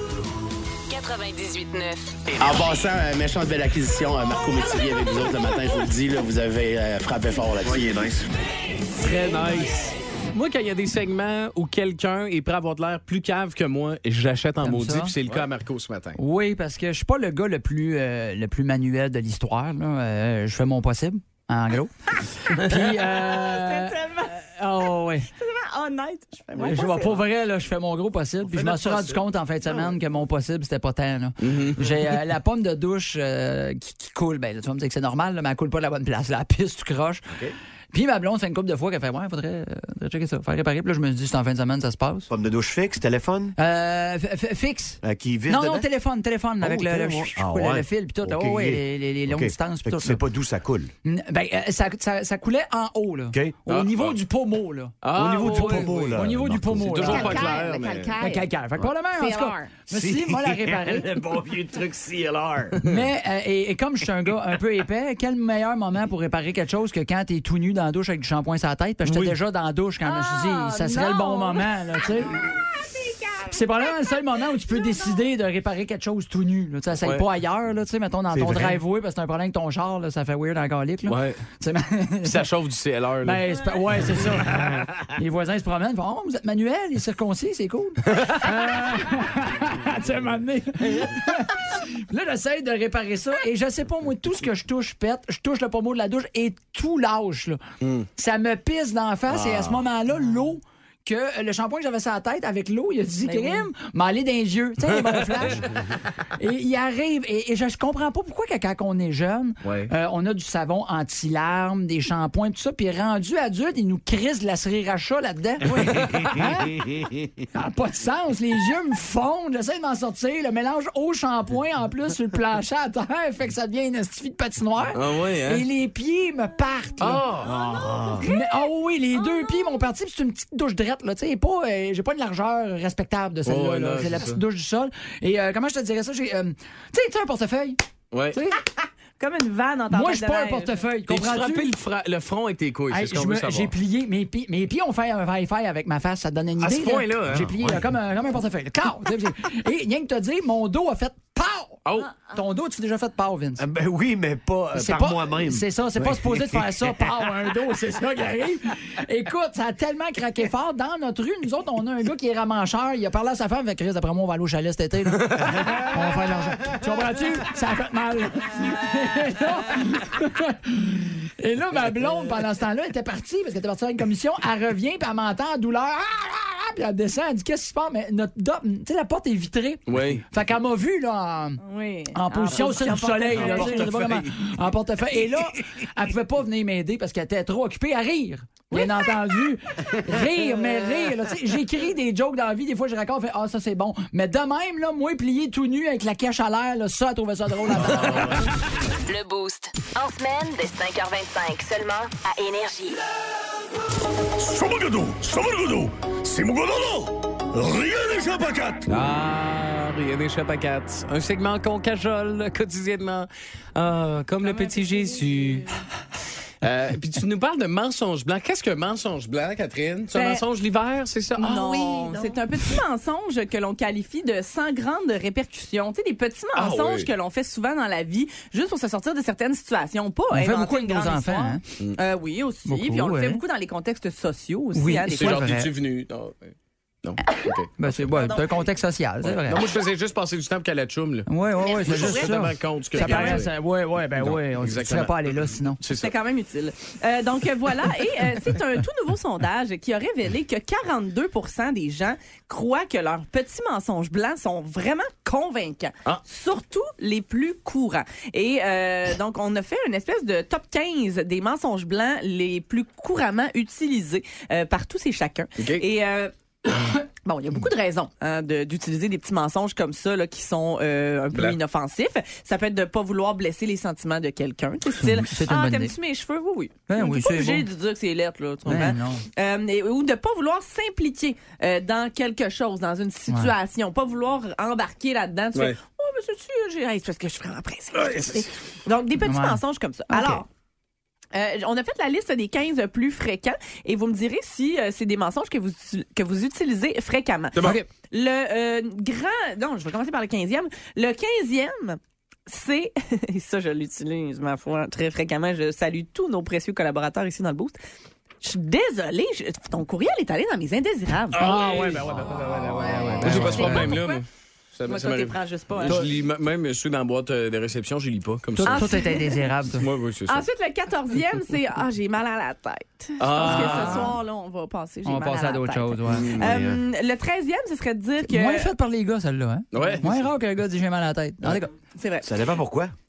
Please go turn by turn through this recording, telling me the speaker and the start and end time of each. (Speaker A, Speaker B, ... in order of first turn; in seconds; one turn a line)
Speaker A: 0.9-2.2
Speaker B: 2.3-8.0
Speaker C: 7.6-8.3
Speaker D: 8.9-16.2
Speaker E: 14.6-15.1
Speaker E: 16.2-25.3
Speaker F: 23.2-24.4
Speaker F: 25.3-27.2
Speaker E: 26.6-37.3
Speaker C: 28.4-30.0
Speaker D: 31.4-31.8
Speaker C: 37.3-37.5
Speaker E: 37.9-42.3
Speaker C: 42.3-43.5
Speaker E: 43.6-50.2
Speaker C: 45.0-45.9
Speaker C: 46.6-50.9
Speaker E: 51.0-57.6
Speaker D: 53.7-54.2
Speaker D: 55.0-58.2
Speaker C: 55.1-57.6
Speaker E: 58.2-61.2
Speaker C: 59.9-62.8
Speaker E: 62.8-72.5
Speaker D: 69.0-69.4
Speaker F: 70.0-71.7
Speaker E: 73.5-82.5
Speaker F: 74.8-75.1
Speaker D: 77.0-77.2
Speaker C: 78.3-78.8
Speaker D: 81.1-81.4
Speaker D: 82.2-83.5
Speaker E: 83.2-97.6
Speaker F: 83.5-84.0
Speaker E: 98.2-105.8
Speaker C: 99.3-99.9
Speaker F: 103.2-103.7
Speaker E: 106.4-127.3
Speaker C: 109.6-109.9
Speaker D: 115.8-116.4
Speaker D: 125.0-125.7
Speaker D: 127.0-127.5
Speaker C: 127.4-128.3
Speaker F: 127.8-128.7
Speaker E: 128.2-137.8
Speaker F: 129.2-129.5
Speaker D: 133.5-134.4
Speaker D: 138.1-138.4
Speaker E: 138.3-138.7
Speaker F: 139.2-140.8
Speaker E: 139.9-141.8
Speaker D: 141.1-143.7
Speaker E: 142.9-153.6
Speaker D: 146.6-147.5
Speaker C: 147.3-147.9
Speaker D: 151.8-152.1
Speaker C: 153.6-157.3
Speaker E: 154.7-181.6
Speaker D: 179.9-180.2
Speaker F: 181.6-183.9
Speaker E: 182.1-198.7
Speaker D: 183.4-184.3
Speaker F: 188.7-189.1
Speaker A: 199.1-203.0
Speaker C: 204.6-208.9
Speaker D: 208.9-215.7
Speaker F: 214.4-215.7
Speaker D: 216.6-222.3
Speaker F: 220.1-220.4
Speaker F: 221.4-235.5
Speaker D: 226.5-227.1
Speaker E: 230.3-231.6
Speaker E: 232.7-233.4
Speaker E: 234.8-235.7
Speaker D: 235.2-238.0
Speaker E: 237.8-239.6
Speaker D: 239.2-241.3
Speaker E: 241.3-245.8
Speaker F: 241.6-242.3
Speaker D: 241.8-243.5
Speaker F: 242.9-243.4
Speaker D: 244.2-246.1
Speaker F: 245.9-266.3
Speaker D: 265.6-265.8
Speaker F: 267.2-290.5
Speaker E: 275.0-275.9
Speaker E: 276.9-277.7
Speaker E: 278.7-279.2
Speaker D: 288.0-288.4
Speaker E: 289.2-290.4
Speaker F: 291.3-307.8
Speaker E: 297.6-297.9
Speaker F: 308.4-311.6
Speaker D: 311.3-319.1
Speaker E: 311.4-314.0
Speaker F: 312.6-314.2
Speaker F: 314.9-316.0
Speaker E: 318.6-319.9
Speaker F: 318.6-319.5
Speaker D: 319.8-320.4
Speaker F: 320.3-328.7
Speaker D: 323.2-324.1
Speaker E: 323.4-324.2
Speaker E: 325.1-326.3
Speaker D: 326.1-326.5
Speaker C: 326.3-326.8
Speaker E: 328.2-331.7
Speaker D: 329.7-330.3
Speaker F: 332.0-332.3
Speaker C: 332.2-332.9